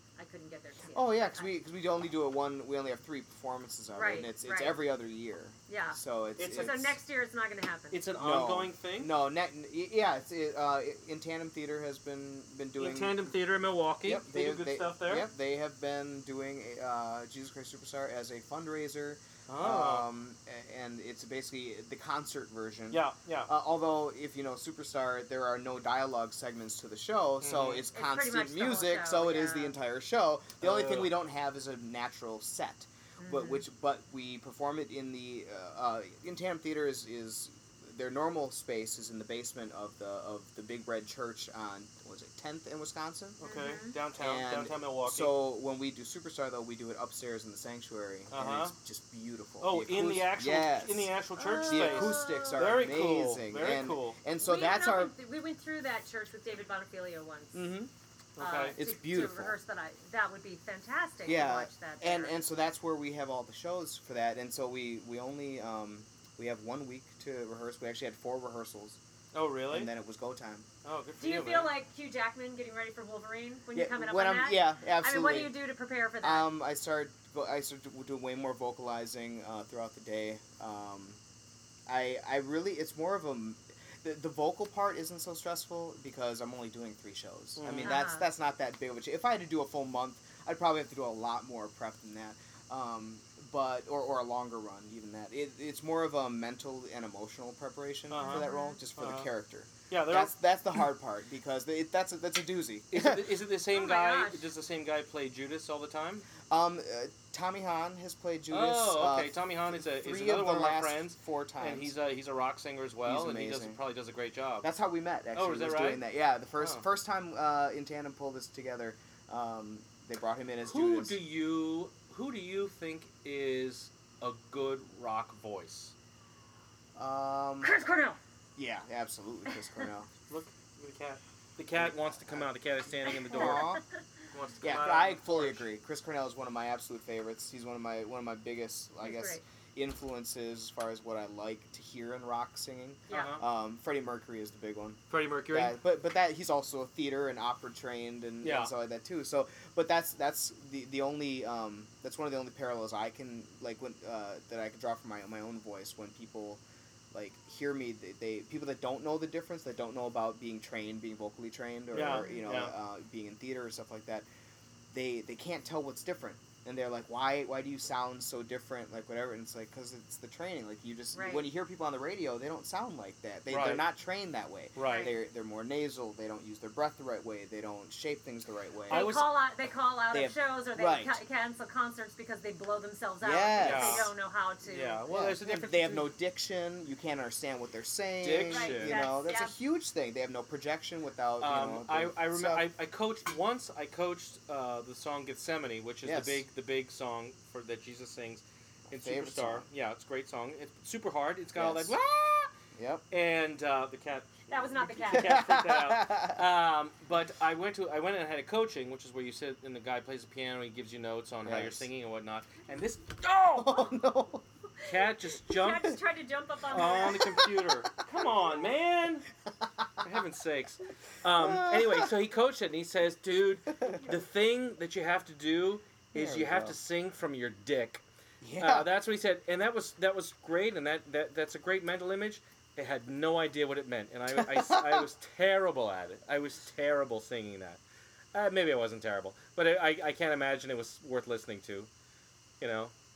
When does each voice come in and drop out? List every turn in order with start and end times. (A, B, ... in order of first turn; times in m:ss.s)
0:00.2-0:01.6 A
0:00.9-0:07.0 B
0:03.9-0:04.8 A
0:05.7-0:06.0 A
0:06.4-0:06.9 C
0:06.6-0:08.0 A
0:07.9-0:09.1 C
0:08.2-0:13.2 B
0:12.8-0:15.3 C
0:14.0-0:43.4 B
0:19.5-0:20.0 C
0:22.9-0:23.5 C
0:27.4-0:27.8 C
0:27.9-0:29.7 A
0:30.6-0:31.1 C
0:33.2-0:33.6 A
0:43.4-0:45.3 C
0:43.4-0:44.0 A
0:44.2-0:51.1 B
0:48.3-0:48.7 C
0:49.6-0:54.2 C
0:51.4-0:52.7 A
0:51.6-0:55.1 B
0:54.4-0:57.7 A
0:57.5-0:57.9 B
0:58.4-0:58.8 C
0:58.4-1:02.3 A
0:58.8-0:59.6 B
1:01.2-1:09.0 B
1:09.3-1:09.9 C
1:09.7-1:10.7 B
1:10.8-1:11.7 C
1:11.2-1:16.5 A
1:13.7-1:15.5 B
1:16.2-1:21.2 B
1:21.9-1:43.2 B
1:27.6-1:28.0 C
1:27.8-1:28.3 A
1:38.1-1:39.3 C
1:38.2-1:38.8 A
1:39.9-1:40.3 C
1:42.9-1:46.3 C
1:43.7-1:44.5 A
1:46.4-1:51.9 B
1:48.5-1:54.7 C
1:53.0-1:53.8 B
1:54.6-2:01.2 B
1:55.3-1:56.0 C
1:56.6-1:56.8 C
2:00.6-2:05.9 C
2:07.0-2:07.7 B
2:07.6-2:08.2 A
2:08.6-2:10.1 B
2:09.5-2:09.8 A
2:10.3-2:13.7 C
2:11.7-2:12.5 B
2:13.1-2:13.8 A
2:13.2-2:13.8 B
2:14.3-2:15.7 C
2:14.6-2:44.3 B
2:19.0-2:19.4 A
2:23.1-2:23.4 A
2:23.1-2:23.4 C
2:25.1-2:25.7 C
2:28.4-2:28.7 C
2:41.9-2:42.7 C
2:42.0-2:42.4 A
2:44.9-2:59.1 B
2:51.1-2:51.5 A
2:53.5-2:53.8 C
2:54.8-2:55.1 C
2:54.8-2:55.1 A
2:58.9-2:59.3 C
2:58.9-3:05.0 A
3:00.1-3:01.2 B
3:03.2-3:04.1 B
3:03.6-3:04.1 C
3:04.6-3:06.1 C
3:05.1-3:12.7 B
3:08.2-3:09.0 C
3:08.5-3:09.5 A
3:11.4-3:22.5 C
3:16.0-3:16.4 B
3:18.9-3:19.6 B
3:21.5-3:22.0 B
3:22.7-3:23.0 B
3:23.1-3:33.9 C
3:24.5-3:25.4 A
3:25.1-3:26.4 B
3:31.4-3:31.9 B
3:33.5-3:34.4 B
3:34.8-3:37.5 A
3:34.8-3:36.0 C
3:36.7-3:39.3 C
3:36.7-3:38.0 B
3:39.6-3:40.1 B
3:40.0-3:48.0 C
3:41.4-3:42.1 B
3:43.8-3:44.1 B
3:46.1-3:46.8 B
3:48.4-3:48.9 B
3:48.6-3:57.8 C
3:54.3-3:55.1 B
3:58.3-4:01.9 C
4:02.6-4:02.9 C